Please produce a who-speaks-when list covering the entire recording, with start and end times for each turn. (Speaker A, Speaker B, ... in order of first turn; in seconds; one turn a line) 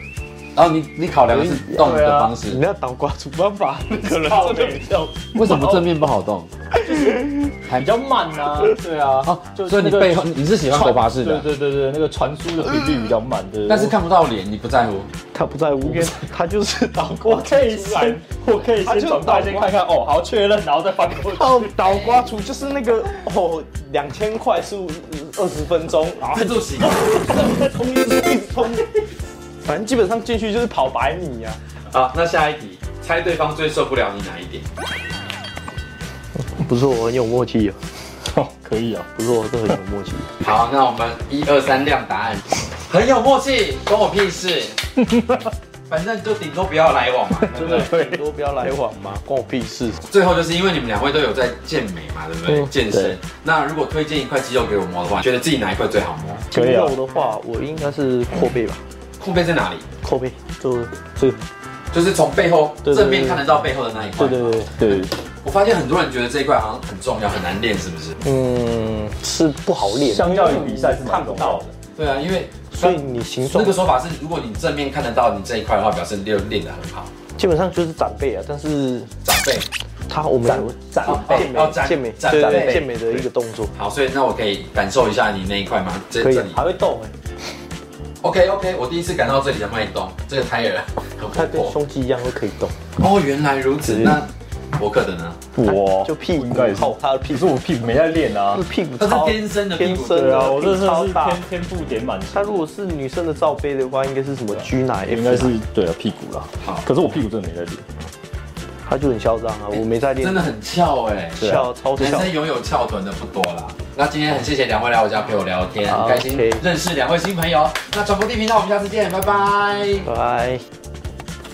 Speaker A: 0.5-2.6
Speaker B: 1.3-5.2
Speaker C: 1.8-2.3
Speaker C: 4.0-5.9
Speaker A: 5.3-6.5
Speaker B: 6.8-7.5
Speaker A: 7.7-7.9
Speaker C: 7.7-13.9
Speaker A: 9.2-11.5
Speaker B: 12.7-13.1
Speaker A: 13.7-15.1
Speaker B: 15.3-18.2
Speaker C: 17.2-21.7
Speaker B: 18.8-19.8
Speaker B: 21.3-28.9
Speaker A: 26.2-27.0
Speaker B: 29.6-31.6
Speaker A: 31.9-34.6
Speaker B: 36.5-37.8
Speaker C: 38.2-39.1
Speaker B: 39.1-40.3
Speaker A: 40.4-44.8
Speaker A: 45.9-47.9
Speaker C: 47.4-48.2
Speaker B: 47.5-50.0
Speaker A: 50.1-56.5
Speaker C: 52.9-53.1
Speaker C: 56.5-57.0
Speaker B: 56.5-58.8
Speaker A: 59.2-59.8
Speaker B: 60.0-61.4
Speaker A: 61.9-64.7
Speaker B: 62.8-63.4
Speaker B: 64.2-64.9
Speaker C: 64.7-65.1
Speaker A: 65.4-68.2
Speaker B: 68.2-71.7
Speaker C: 69.9-71.7
Speaker A: 72.0-77.1
Speaker B: 72.7-73.8
Speaker B: 77.4-79.1
Speaker A: 79.2-79.7
Speaker B: 80.1-83.7
Speaker C: 80.4-81.6
Speaker A: 81.0-86.6
Speaker B: 86.2-87.1
Speaker A: 88.2-91.7
Speaker B: 91.3-92.7
Speaker A: 93.0-95.5
Speaker B: 93.9-94.2
Speaker C: 95.5-98.6
Speaker B: 95.6-97.5
Speaker B: 98.5-101.4
Speaker A: 99.0-100.5
Speaker C: 100.1-102.7
Speaker B: 102.3-105.6
Speaker C: 105.1-107.8
Speaker B: 108.8-110.5
Speaker A: 109.7-120.1
Speaker B: 111.4-112.3
Speaker C: 111.4-111.7
Speaker B: 115.8-116.6
Speaker B: 120.0-120.6